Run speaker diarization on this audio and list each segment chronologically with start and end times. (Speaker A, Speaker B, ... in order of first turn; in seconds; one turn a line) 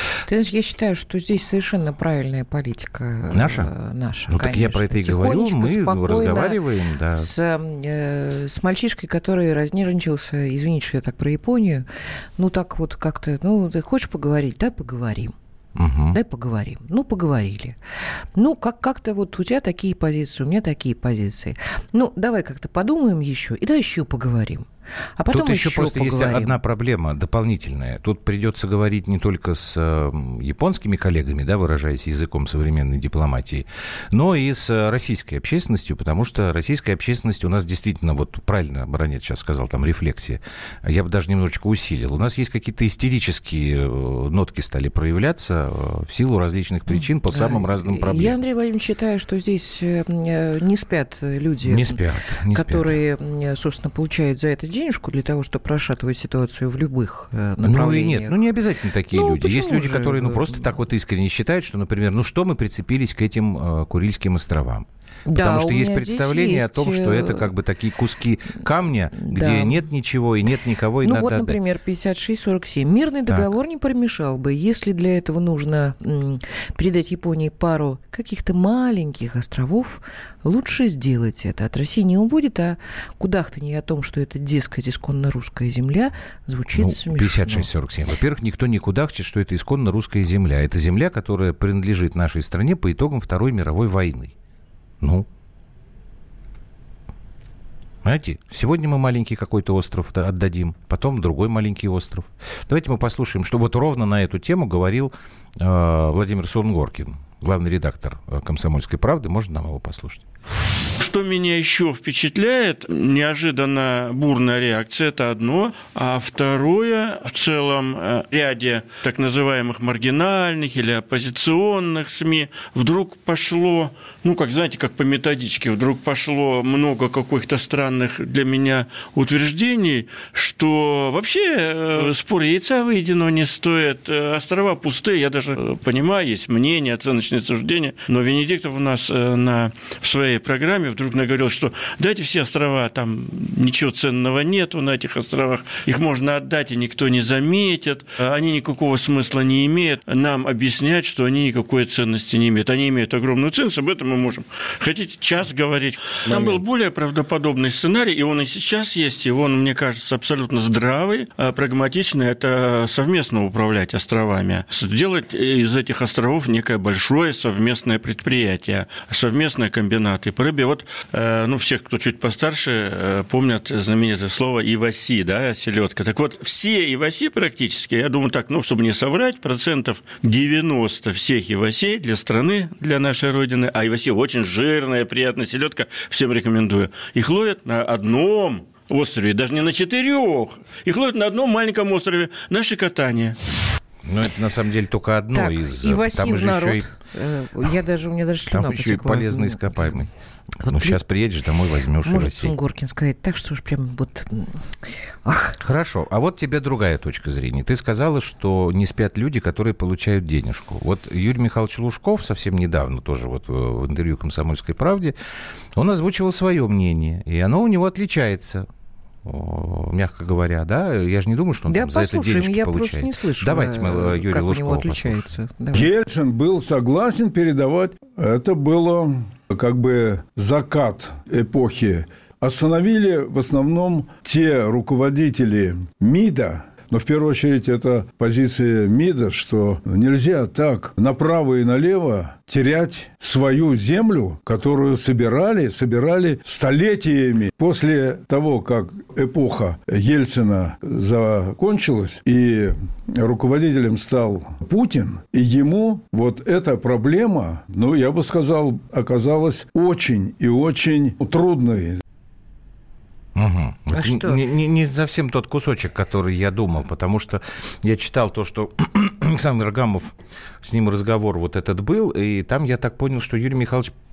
Speaker A: 0.3-6.6
Speaker B: 3.3-3.7
Speaker B: 4.3-7.3
Speaker A: 7.1-11.9
Speaker A: 12.4-15.3
Speaker B: 15.8-16.2
Speaker A: 16.1-17.8
Speaker A: 18.4-26.6
Speaker B: 25.3-48.4
Speaker A: 46.9-52.0
Speaker B: 51.6-53.0
Speaker A: 52.5-58.4
Speaker B: 57.6-71.6
Speaker A: 59.1-60.7
Speaker A: 65.3-67.5
Speaker A: 69.2-69.8
Speaker A: 71.0-87.7
Speaker B: 86.8-94.3
Speaker B: 95.0-95.3
Speaker B: 98.0-110.2
Speaker C: 111.0-193.4
Speaker B: 194.0-196.9
Speaker A: 195.3-200.1
Speaker B: 198.5-200.1
Speaker A: 200.6-201.0
Speaker B: 200.7-202.5
Speaker A: 202.0-205.6
Speaker B: 205.6-215.2
Speaker B: 215.8-218.7
Speaker B: 219.2-225.3
Speaker A: 221.7-225.9
Speaker D: 225.7-262.0
Speaker B: 263.4-273.9
Speaker A: 263.9-264.4